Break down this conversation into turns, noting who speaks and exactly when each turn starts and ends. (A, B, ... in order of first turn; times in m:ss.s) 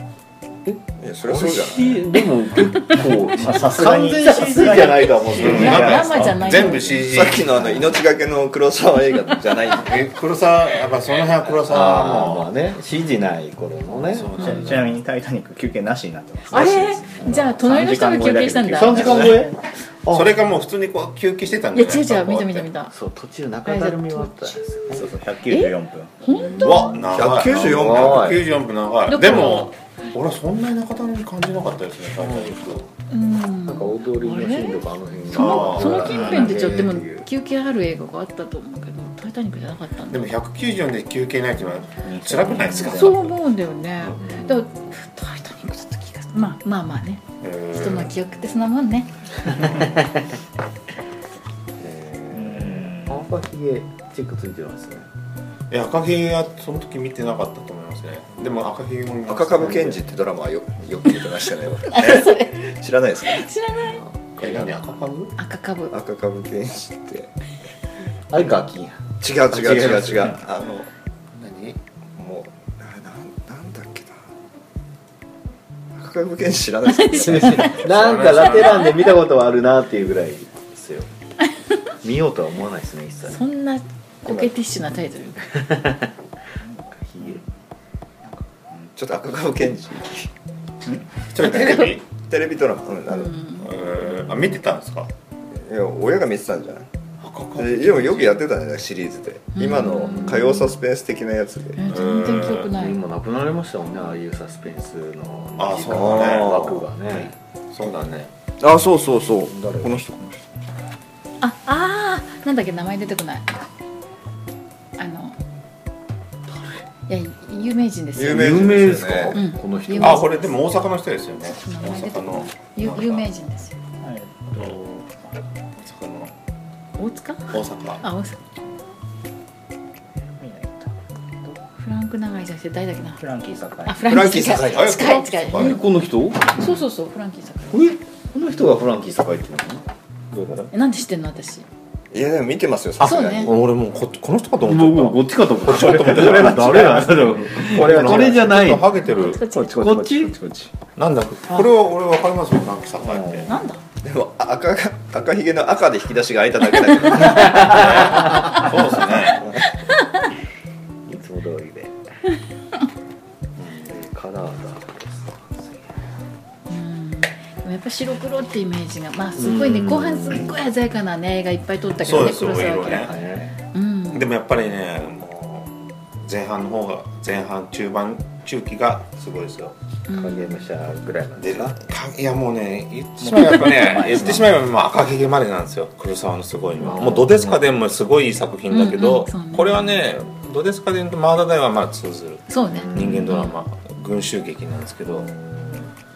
0:00.6-0:07.0 A
0:01.0-0:02.1 B
0:03.2-0:05.0 C
0:04.2-0:07.0 D
0:05.3-0:07.5 E
0:07.0-0:10.0 B
0:07.6-0:07.8 A
0:09.8-0:12.5 E
0:11.6-0:14.8 A
0:14.1-0:15.0 E
0:14.4-0:19.4 C
0:16.5-0:19.4 D
0:18.7-0:20.3 A
0:20.1-0:22.7 E
0:21.7-0:22.9 D
0:22.9-0:25.1 A
0:23.6-0:27.1 D
0:24.9-0:26.2 C
0:26.3-0:28.5 A
0:26.6-0:32.8 E
0:27.1-0:28.4 B
0:29.1-0:29.7 D
0:32.2-0:32.8 A
0:33.1-0:40.2 D
0:33.6-0:37.3 A
0:35.3-0:36.7 E
0:40.1-0:43.4 E
0:42.3-0:42.9 C
0:42.5-0:42.8 A
0:42.8-0:49.8 D
0:44.2-0:44.7 A
0:47.4-0:48.1 E
0:49.5-0:50.0 E
0:51.8-0:52.9 E
0:52.3-0:53.2 C
0:52.5-0:55.1 A
0:55.7-1:00.0 E
0:59.3-1:03.5 B
1:01.9-1:02.7 D
1:03.2-1:04.0 D
1:03.8-1:04.7 A
1:04.4-1:05.3 E
1:04.4-1:04.7 B
1:05.4-1:05.9 D
1:05.9-1:07.3 B
1:08.3-1:10.4 A
1:09.2-1:10.9 B
1:11.3-1:11.8 E
1:12.2-1:14.2 B
1:15.9-1:17.8 B
1:16.9-1:17.8 D
1:17.2-1:21.1 A
1:17.8-1:19.0 E
1:18.4-1:19.1 D
1:22.0-1:23.4 A
1:23.3-1:25.8 D
1:24.2-1:24.5 A
1:25.5-1:26.1 A
1:27.0-1:27.4 A
1:28.3-1:28.8 C
1:29.0-1:30.3 B
1:31.3-1:32.0 E
1:31.4-1:31.9 D
1:31.7-1:33.4 B
1:33.1-1:33.7 D
1:33.6-1:35.1 E
1:35.5-1:36.9 B
1:37.2-1:38.4 E
1:37.6-1:41.8 B
1:39.6-1:40.7 D
1:41.8-1:43.0 D
1:41.9-1:42.7 E
1:42.7-1:47.3 A
1:45.6-1:48.3 E
1:45.9-1:46.8 B
1:48.6-1:50.2 B
1:49.5-1:50.2 A
1:51.4-1:53.5 D
1:55.0-1:55.4 D
1:57.1-1:58.7 D
1:58.2-1:59.4 B
1:58.3-2:00.3 A
1:59.3-2:00.4 D
2:00.0-2:03.3 E
2:01.5-2:03.8 D
2:04.0-2:04.8 C
2:04.5-2:05.0 E
2:05.8-2:06.3 E
2:07.0-2:08.4 D
2:07.5-2:08.0 E
2:10.4-2:11.6 C
2:11.8-2:13.2 D
2:13.2-2:14.1 C
2:13.8-2:15.8 D
2:14.0-2:15.2 B
2:14.5-2:15.8 E
2:15.4-2:16.7 A
2:16.5-2:17.9 D
2:17.7-2:20.7 A
2:20.7-2:21.6 D
2:22.1-2:23.5 B
2:23.0-2:23.5 D
2:23.0-2:29.5 E
2:24.6-2:30.5 A
2:29.0-2:29.9 D
2:29.7-2:30.7 C
2:31.0-2:33.5 E
2:33.0-2:33.6 A
2:33.5-2:33.8 D
2:34.0-2:38.2 B
2:37.4-2:38.7 A
2:37.5-2:39.5 E
2:40.0-2:40.3 D
2:41.0-2:42.0 A
2:43.6-2:43.9 E
2:43.8-2:46.0 A
2:46.7-2:53.2 D
2:49.4-2:50.6 A
2:52.0-2:53.1 E
2:52.8-2:53.5 A
2:53.7-2:54.3 D
2:54.1-2:59.7 E
3:00.1-3:00.7 D
3:00.1-3:01.8 A
3:01.4-3:15.3 E
3:03.2-3:04.4 C
3:04.2-3:04.4 A
3:06.8-3:07.6 A
3:08.7-3:09.9 D
3:12.5-3:13.6 D
3:12.7-3:13.4 A
3:15.1-3:15.9 A